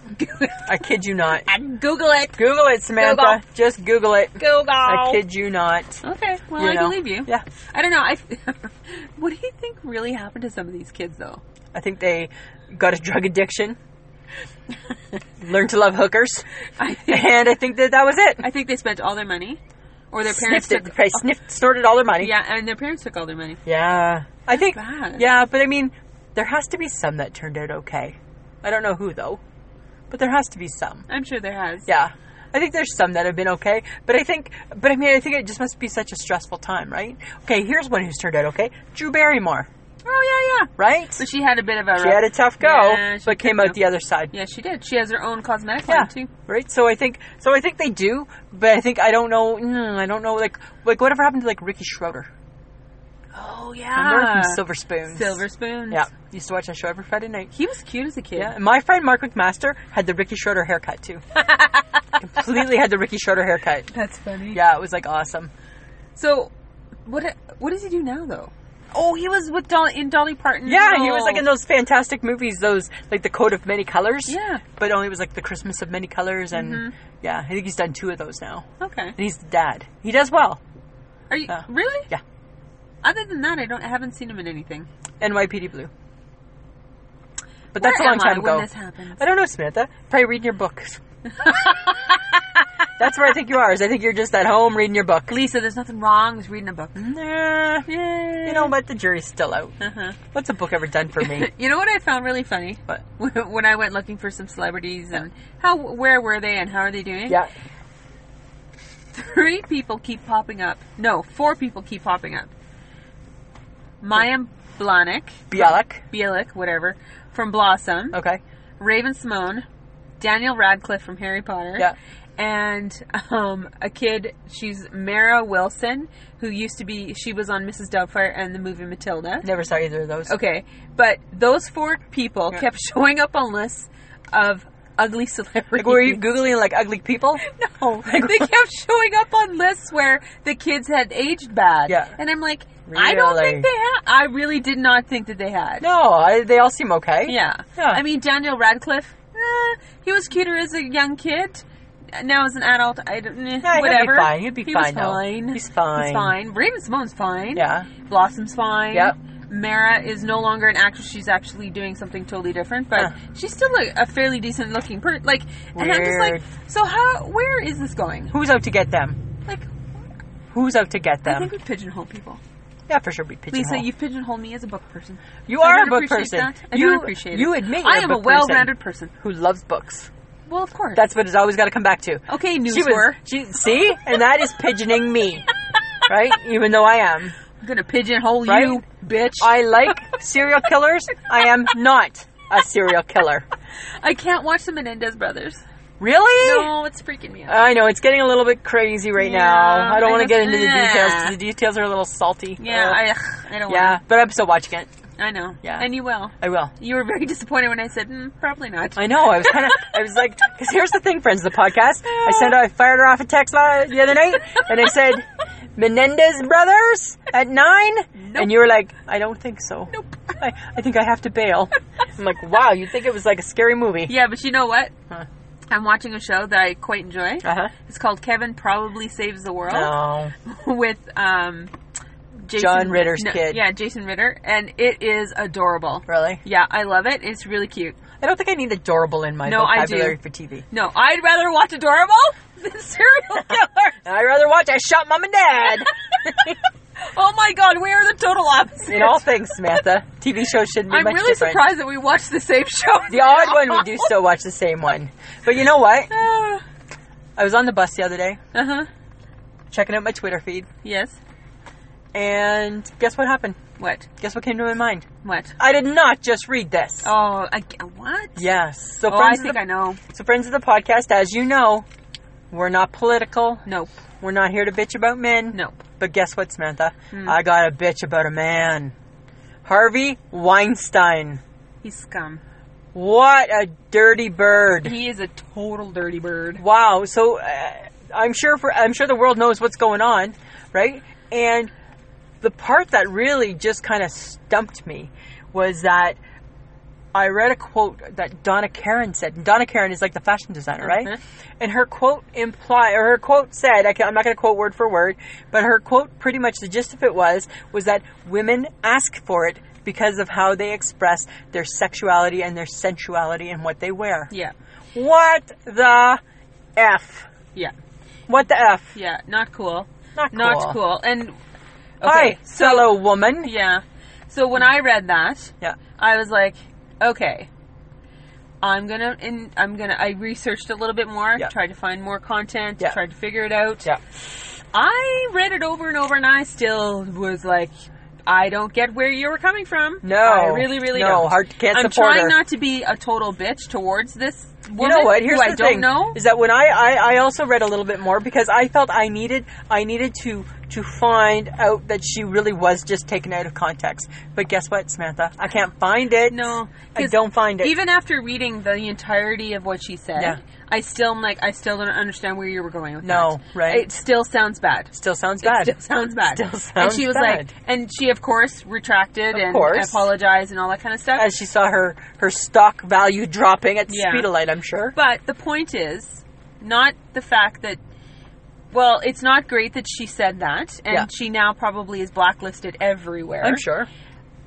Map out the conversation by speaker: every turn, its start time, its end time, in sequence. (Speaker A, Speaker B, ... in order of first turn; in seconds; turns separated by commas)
Speaker A: 0.1-0.7, Speaker B: 0.7-1.5, Speaker A: 1.4-3.4, Speaker B: 2.4-6.0, Speaker A: 4.4-5.2, Speaker A: 6.0-11.4, Speaker B: 6.6-7.4, Speaker B: 11.7-13.8, Speaker B: 15.4-16.4, Speaker A: 16.8-17.4, Speaker B: 17.1-18.4, Speaker A: 18.4-19.6, Speaker A: 20.1-21.2, Speaker B: 20.2-22.3, Speaker A: 22.2-23.6, Speaker B: 23.6-29.4, Speaker A: 24.5-25.2, Speaker B: 30.1-31.1, Speaker A: 31.1-31.9, Speaker B: 31.9-39.7, Speaker A: 40.0-43.8, Speaker B: 40.8-41.2, Speaker B: 42.0-44.3, Speaker A: 44.3-46.3, Speaker B: 45.9-52.3, Speaker A: 53.3-56.1, Speaker B: 53.9-57.5, Speaker A: 57.5-58.5, Speaker B: 58.3-61.2, Speaker A: 61.3-62.2, Speaker B: 62.2-63.9, Speaker A: 63.9-64.6, Speaker B: 64.5-65.5, Speaker A: 66.2-66.5, Speaker A: 67.0-71.5, Speaker B: 70.6-80.6, Speaker A: 74.3-74.6, Speaker A: 76.5-76.9, Speaker A: 78.8-79.1, Speaker A: 81.3-82.1, Speaker B: 81.5-82.2, Speaker A: 83.0-84.9, Speaker B: 85.2-85.9, Speaker B: 87.7-91.0, Speaker A: 87.8-89.2, Speaker A: 91.3-92.3, Speaker B: 93.0-95.3, Speaker A: 95.3-97.0, Speaker B: 96.9-97.9, Speaker A: 97.9-98.7, Speaker B: 98.4-99.8, Speaker A: 99.8-100.2, Speaker B: 100.3-101.5, Speaker A: 101.2-107.4, Speaker A: 109.1-112.5, Speaker A: 114.0-118.2, Speaker B: 115.5-116.0, Speaker B: 118.1-118.4, Speaker A: 118.8-119.6, Speaker A: 120.2-129.5, Speaker B: 129.4-130.3, Speaker A: 130.3-136.2, Speaker B: 135.8-137.4, Speaker A: 137.4-145.9, Speaker B: 138.0-138.5, Speaker B: 141.9-142.1, Speaker B: 142.8-143.7, Speaker B: 145.8-148.0, Speaker A: 147.2-168.3, Speaker B: 153.6-156.3, Speaker B: 157.5-157.9, Speaker B: 165.7-166.4, Speaker B: 168.3-169.2, Speaker B: 170.5-171.5, Speaker A: 171.2-172.4, Speaker B: 172.9-173.9, Speaker A: 173.5-179.1, Speaker B: 175.5-180.1, Speaker A: 180.5-181.0, Speaker B: 180.9-185.5, Speaker A: 182.3-183.2, Speaker B: 186.1-187.3, Speaker A: 187.6-189.6, Speaker B: 188.4-188.8, Speaker B: 189.4-193.4, Speaker A: 194.0-195.6, Speaker B: 196.0-196.7, Speaker A: 196.4-197.6, Speaker B: 197.5-203.0, Speaker A: 199.2-201.3, Speaker A: 202.6-204.0, Speaker B: 203.7-204.9, Speaker A: 205.2-209.9, Speaker B: 206.4-206.7, Speaker B: 208.9-224.1, Speaker A: 212.1-212.6, Speaker A: 218.2-218.5, Speaker A: 219.9-220.4, Speaker A: 224.1-224.9, Speaker A: 225.7-231.7, Speaker B: 227.4-227.7, Speaker B: 229.7-230.3, Speaker A: 232.4-238.0, Speaker B: 232.5-233.6, Speaker B: 236.1-236.4, Speaker B: 238.2-240.6, Speaker A: 239.4-240.2, Speaker A: 240.7-243.9, Speaker B: 244.0-246.6, Speaker A: 247.0-249.2, Speaker B: 248.9-251.7, Speaker A: 250.9-254.1, Speaker B: 253.1-256.1, Speaker A: 256.1-256.6, Speaker B: 257.4-258.4, Speaker A: 258.5-258.9, Speaker B: 259.7-260.7, Speaker A: 260.8-261.2, Speaker B: 262.1-263.6, Speaker A: 263.8-264.1, Speaker B: 264.2-265.1, Speaker A: 265.2-265.5, Speaker B: 265.6-267.1, Speaker A: 267.0-268.5, Speaker B: 268.4-271.9, Speaker A: 269.1-270.0, Speaker B: 272.5-273.6, Speaker A: 273.6-273.9, Speaker B: 274.2-278.9, Speaker A: 275.5-275.8, Speaker A: 277.1-277.4, Speaker B: 279.6-281.4, Speaker A: 281.8-282.4, Speaker B: 282.9-284.9, Speaker A: 284.8-286.6, Speaker B: 286.6-291.7, Speaker B: 292.4-296.2, Speaker B: 297.1-314.3, Speaker A: 300.8-301.2, Speaker B: 314.9-316.2, Speaker B: 316.8-317.3, Speaker B: 318.3-319.0, Speaker A: 318.9-321.3, Speaker B: 320.1-320.8, Speaker A: 322.0-327.5, Speaker B: 322.0-323.5, Speaker A: 328.6-333.9, Speaker A: 334.7-337.7, Speaker A: 338.2-346.2, Speaker B: 340.0-342.4, Speaker B: 344.8-357.7, Speaker A: 356.3-371.3, Speaker B: 363.0-363.9, Speaker B: 364.9-365.7, Speaker B: 366.3-367.5, Speaker B: 369.3-370.1, Speaker B: 371.1-374.9, Speaker A: 373.9-374.3, Speaker A: 374.9-377.8, Speaker A: 378.7-383.6, Speaker B: 383.4-383.9